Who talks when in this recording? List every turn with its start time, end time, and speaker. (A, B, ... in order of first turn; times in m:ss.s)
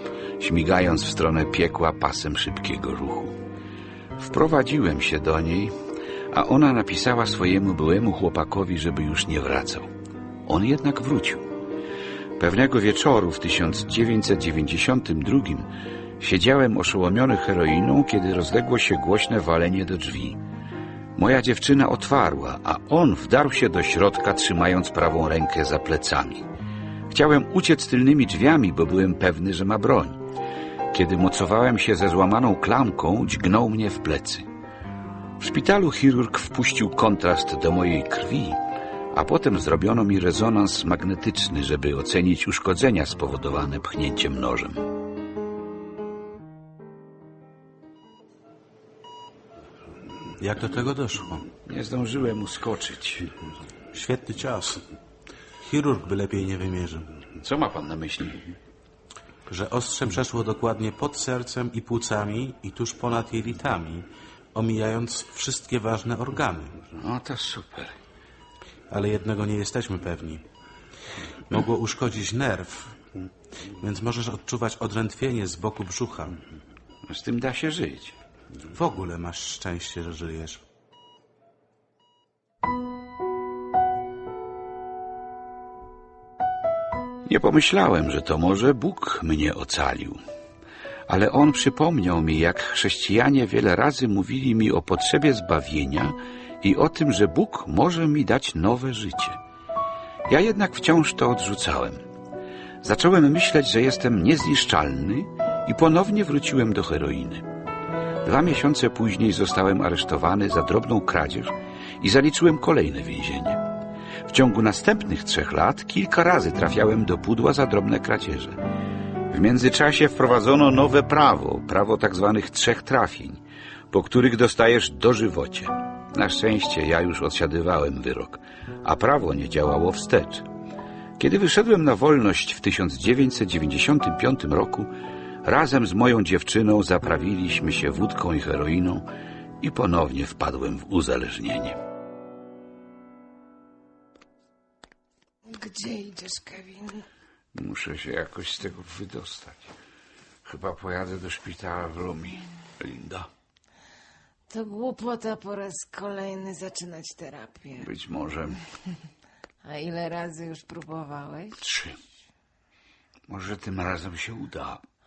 0:00.4-0:03.4 A
0:04.2-0:05.7 A
0:06.3-0:09.9 A
0:10.5-0:11.5 A
0:12.4-0:15.7 A
0:16.2-0:20.4 A
0:21.2-0:26.5 A
0:27.1-0:30.2 A
0:30.9-0:34.4 A
0:35.4-0:38.6 A
0:39.1-0:44.8 A
0:50.4-0:51.5 B
0:51.6-0:53.3 A
0:53.9-0:54.8 B
0:55.6-0:57.1 B
0:57.4-0:58.5 A
0:59.5-1:06.8 B
1:06.9-1:07.9 A
1:08.9-1:10.4 B
1:11.5-1:13.0 B
1:13.8-1:16.4 B
1:17.0-1:18.1 A
1:18.7-1:20.6 B
1:27.2-1:30.2 A
1:31.1-1:39.4 A
1:40.3-1:42.0 A
1:42.8-1:47.4 A
1:48.2-1:53.6 A
1:54.3-1:58.6 A
1:59.3-2:10.5 A
2:11.2-2:14.9 A
2:15.4-2:19.0 A
2:19.6-2:21.8 A
2:25.5-2:27.0 C
2:27.5-2:29.7 A
2:30.4-2:33.3 A
2:34.5-2:37.9 C
2:37.8-2:38.6 A
2:39.6-2:41.6 C
2:41.6-2:42.0 A
2:43.3-2:44.8 A